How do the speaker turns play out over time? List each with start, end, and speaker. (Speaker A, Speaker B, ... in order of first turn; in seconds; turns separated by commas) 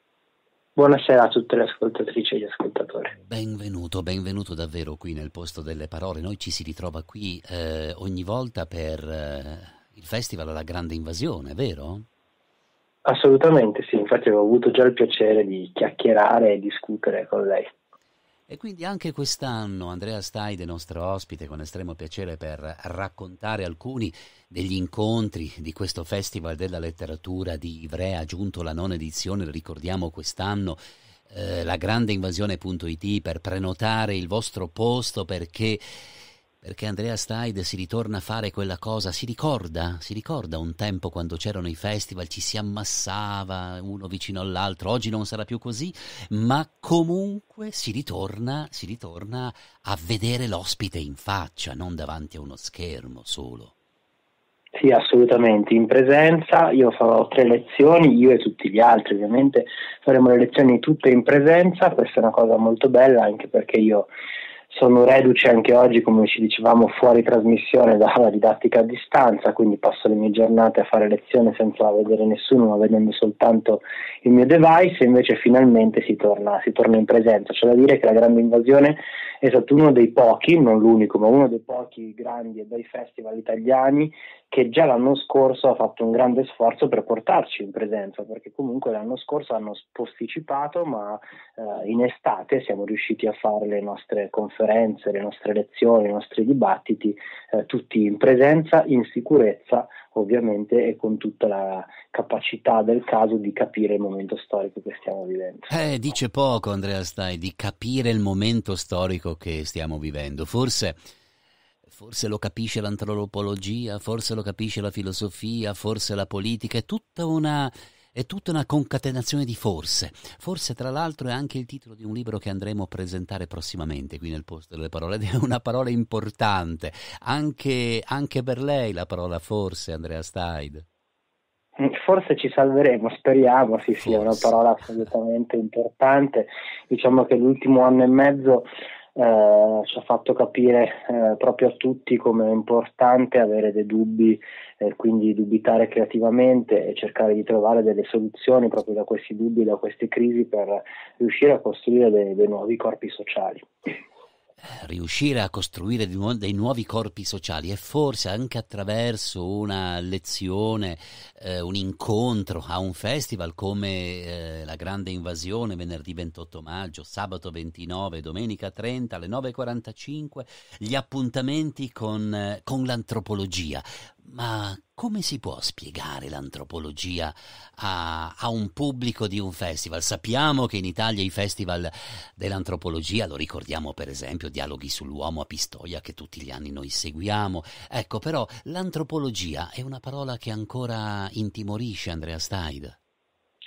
Speaker A: 0.8-3.1, Speaker B: 3.2-12.1, Speaker A: 13.0-17.7, Speaker B: 18.5-35.8, Speaker B: 36.6-53.7, Speaker A: 54.7-64.1, Speaker A: 64.7-105.7, Speaker B: 105.7-111.0, Speaker B: 111.9-130.8, Speaker A: 131.8-153.9, Speaker B: 134.0-134.5, Speaker B: 154.7-193.0